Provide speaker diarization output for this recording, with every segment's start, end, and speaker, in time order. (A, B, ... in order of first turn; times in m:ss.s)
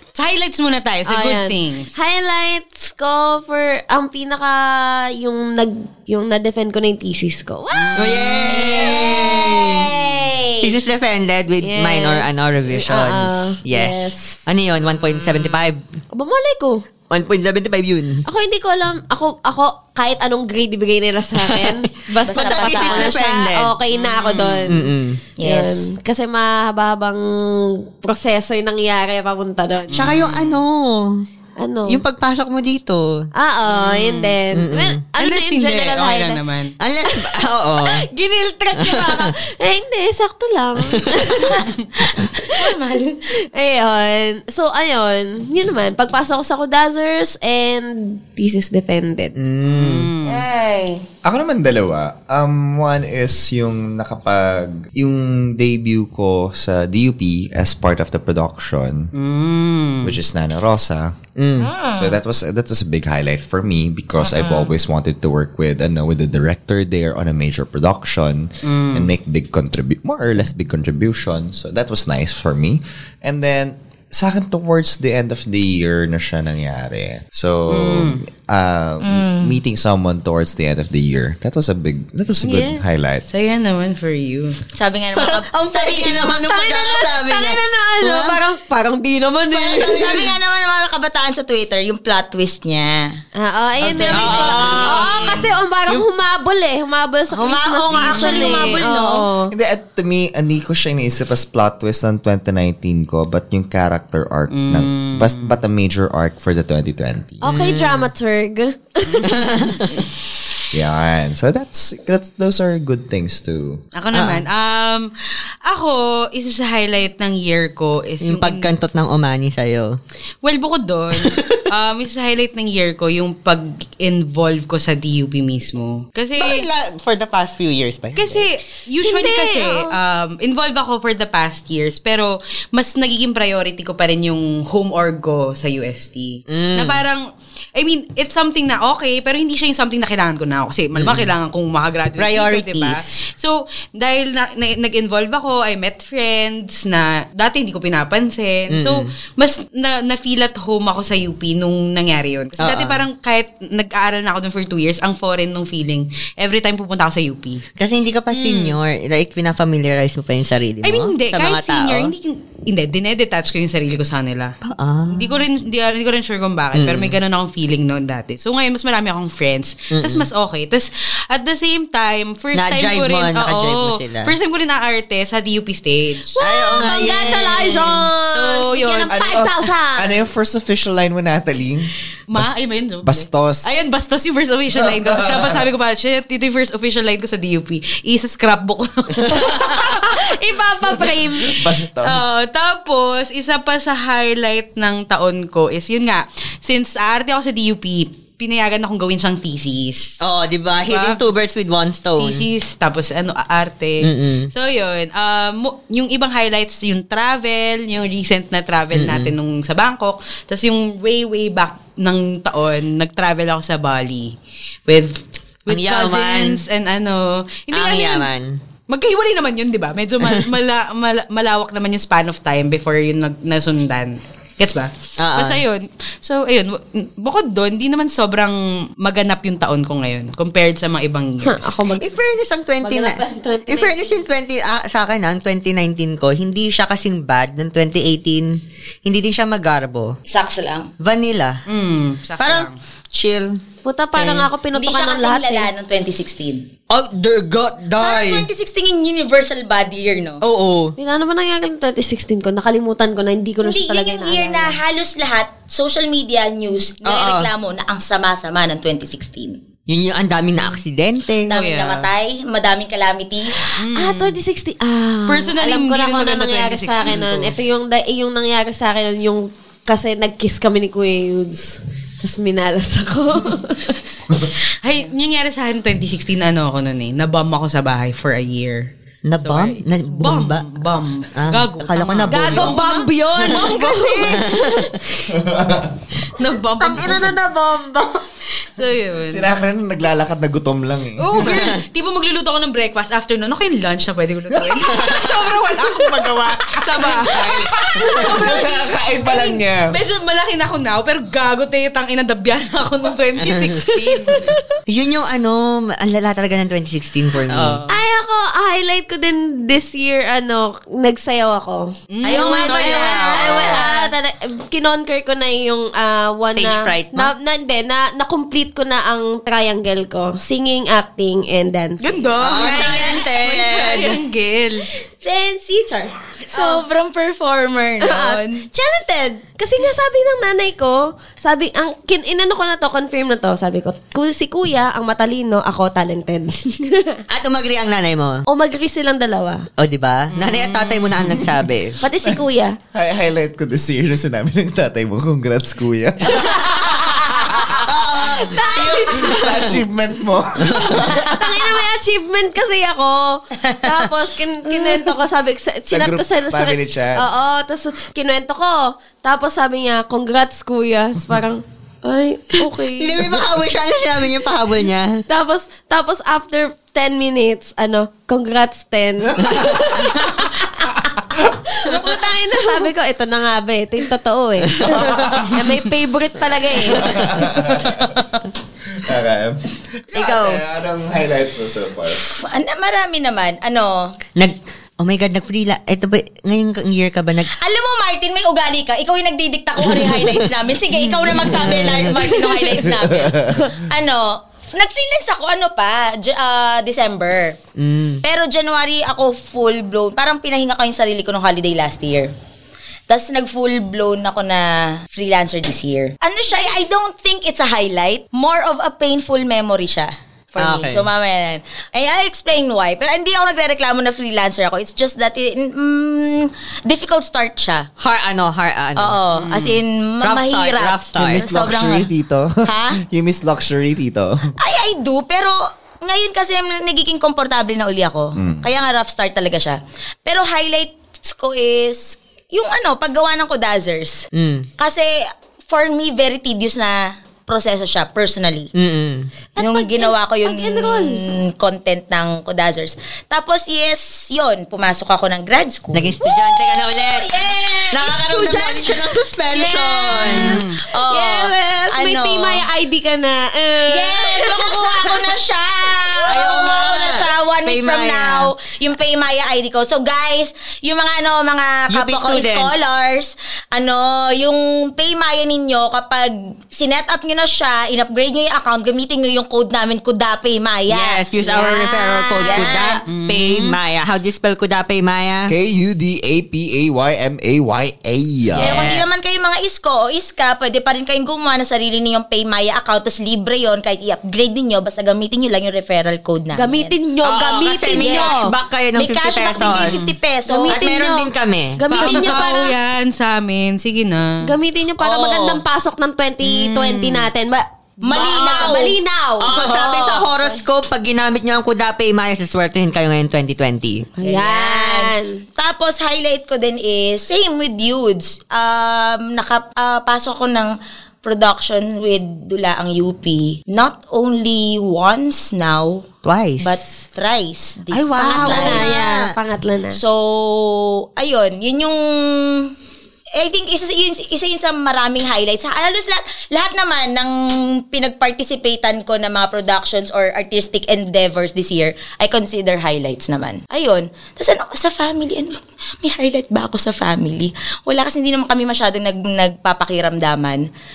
0:00.1-0:01.9 A
0:01.1-0:08.8 B
0:08.0-0:09.9 C
0:08.6-0:10.7 D
0:10.6-0:15.8 C
0:11.6-0:14.4 B
0:16.1-0:16.8 B
0:17.1-0:18.2 C
0:18.2-0:24.9 B
0:21.4-0:21.8 C
0:22.3-0:23.1 D
0:22.3-0:23.7 C
0:24.1-0:24.6 A
0:24.7-0:25.2 C
0:25.4-0:25.8 D
0:25.4-0:30.1 B
0:29.9-0:30.6 A
0:29.9-0:31.2 C
0:31.6-0:32.0 B
0:31.9-0:33.2 C
0:33.3-0:36.4 B
0:33.7-0:34.3 A
0:34.5-0:35.0 C
0:35.2-0:36.7 A
0:36.8-0:38.0 C
0:37.3-0:41.6 B
0:38.8-0:39.3 C
0:40.9-0:41.3 C
0:42.4-0:43.2 D
0:43.5-0:49.3 B
0:49.4-0:50.1 C
0:49.7-0:50.4 A
0:50.3-0:51.0 D
0:51.2-0:59.1 E
0:59.1-1:00.2 A
1:00.0-1:01.2 E
1:01.4-1:01.7 C
1:01.7-1:02.2 D
1:01.9-1:23.2 E
1:04.2-1:04.7 A
1:08.6-1:09.1 A
1:17.7-1:18.2 A
1:19.0-1:19.6 D
1:22.4-1:24.6 A
1:24.8-1:26.3 D
1:25.1-1:28.4 C
1:26.3-1:30.2 B
1:29.5-1:30.3 C
1:29.8-1:33.1 D
1:33.4-1:39.5 B
1:33.8-1:35.4 D
1:34.1-1:35.3 C
1:37.3-1:39.3 D
1:39.5-1:47.4 E
1:44.5-1:45.6 A
1:47.4-1:49.4 B
1:47.4-1:48.1 C
1:49.3-1:49.9 C
1:50.7-1:53.8 E
1:53.9-1:55.1 A
1:54.1-1:54.4 C
1:55.6-1:58.7 A
1:58.2-2:00.0 C
2:00.4-2:06.6 A
2:01.2-2:01.6 C
2:06.4-2:08.5 C
2:08.2-2:17.2 A
2:09.0-2:09.9 B
2:16.5-2:17.0 C
2:17.7-2:37.6 A
2:20.9-2:21.3 C
2:22.2-2:23.0 C
2:28.7-2:29.1 C
2:32.6-2:33.0 C
2:37.8-2:42.1 C
2:38.3-2:38.8 A
2:40.8-2:44.5 A
2:44.6-2:45.4 C
2:45.1-2:59.2 A
2:46.7-2:47.2 C
2:49.9-2:50.3 C
2:52.5-2:54.3 C
2:56.4-3:00.1 B
2:56.4-2:57.8 C
2:59.1-3:03.8 E
3:02.3-3:10.2 A
3:04.8-3:05.5 E
3:09.4-3:11.5 B
3:11.4-3:12.3 E
3:12.0-3:20.2 A
3:20.2-3:22.4 C
3:20.9-3:21.2 A
3:22.2-3:34.3 A
3:24.0-3:24.5 C
3:28.9-3:29.3 C
3:34.9-3:38.3 A
3:35.7-3:36.6 C
3:37.7-3:38.6 C
3:38.9-3:51.8 A
3:45.2-3:45.6 C
3:51.4-3:52.2 B
3:52.0-4:00.2 C
3:52.8-3:54.2 B
4:00.3-4:00.9 D
4:01.0-4:01.6 C
4:01.7-4:02.8 A
4:02.4-4:03.6 C
4:03.8-4:05.7 B
4:04.2-4:06.6 D
4:06.9-4:08.5 C
4:08.0-4:10.4 D
4:10.4-4:10.9 C
4:11.0-4:14.8 B
4:13.6-4:19.6 D
4:17.0-4:17.5 C
4:19.9-4:21.5 C
4:21.5-4:23.6 D
4:21.5-4:22.1 A
4:23.8-4:24.4 A
4:23.9-4:34.0 B
4:25.3-4:27.5 A
4:34.8-4:44.4 A
4:39.2-4:40.7 C
4:41.3-4:42.8 C
4:42.3-4:44.4 D
4:42.6-4:44.5 B
4:44.2-4:45.0 C
4:45.3-4:45.9 E
4:46.3-4:47.4 A
4:46.8-4:48.2 C
4:48.6-4:49.5 A
4:49.3-4:51.7 E
4:51.2-5:04.6 A
4:51.4-4:51.8 C
4:54.6-4:55.3 E
4:56.4-5:00.0 E
5:03.4-5:03.8 C
5:04.9-5:07.8 C
5:07.5-5:07.9 A
5:07.9-5:22.9 B
5:12.1-5:13.9 A
5:12.2-5:14.1 D
5:16.5-5:17.3 C
5:22.0-5:24.9 A
5:22.4-5:24.2 C
5:25.2-5:26.8 B
5:26.5-5:28.6 D
5:28.0-5:37.2 B
5:37.3-5:38.4 C
5:38.5-5:39.7 B
5:39.8-5:42.0 C
5:40.3-5:41.5 A
5:42.0-5:42.8 B
5:42.9-5:47.9 E
5:46.4-5:47.7 B
5:47.7-5:49.8 C
5:48.2-5:49.6 B
5:49.1-5:51.4 E
5:50.6-5:51.0 C
5:51.2-6:03.4 B
5:55.9-5:57.2 E
6:03.0-6:05.2 C
6:05.3-6:11.0 B
6:09.4-6:10.1 E
6:11.7-6:17.5 B
6:14.8-6:15.6 E
6:16.8-6:18.1 E
6:18.9-6:22.3 E
6:20.1-6:20.6 C
6:22.2-6:24.1 D
6:24.4-6:27.5 C
6:27.5-6:37.6 D
6:29.8-6:32.5 C
6:32.8-6:33.7 E
6:37.8-6:38.2 C
6:38.2-6:42.3 D
6:43.1-6:57.9 D
6:50.6-6:51.0 C
6:58.0-6:59.2 C
6:59.0-7:02.1 D
6:59.3-6:59.8 A
7:00.2-7:01.4 C
7:01.1-7:04.5 E
7:02.6-7:03.0 D
7:04.6-7:14.2 D
7:08.4-7:08.7 E
7:14.3-7:14.7 C
7:14.8-7:15.1 D
7:15.7-7:18.7 D
7:18.8-7:19.3 C
7:19.5-7:21.2 B
7:19.6-7:26.2 D
7:25.9-7:30.6 C
7:27.4-7:27.9 D
7:28.2-7:28.9 B
7:29.5-7:35.2 B
7:30.2-7:30.7 A
7:30.9-7:32.6 D
7:33.9-7:53.0 D
7:36.3-7:38.5 C
7:41.9-7:42.7 C
7:50.9-7:55.5 C
7:53.1-7:53.8 A
7:55.5-7:59.0 E
7:58.5-7:59.0 C
7:58.6-8:06.9 D
8:06.5-8:08.5 B
8:07.2-8:10.0 C
8:08.0-8:08.4 D
8:08.9-8:11.0 D
8:09.8-8:10.1 A
8:10.4-8:12.7 B
8:10.7-8:12.4 C
8:11.9-8:14.4 A
8:14.4-8:19.6 B
8:15.0-8:15.6 D
8:16.4-8:17.2 A
8:18.1-8:19.0 D
8:18.2-8:18.7 C
8:19.4-8:24.1 C
8:19.5-8:20.2 D
8:24.2-8:25.4 B
8:24.2-8:36.0 D
8:36.2-8:36.8 C
8:36.6-8:38.9 D
8:37.9-8:39.3 C
8:38.2-8:40.0 B
8:39.9-8:42.7 D
8:43.4-9:00.6 D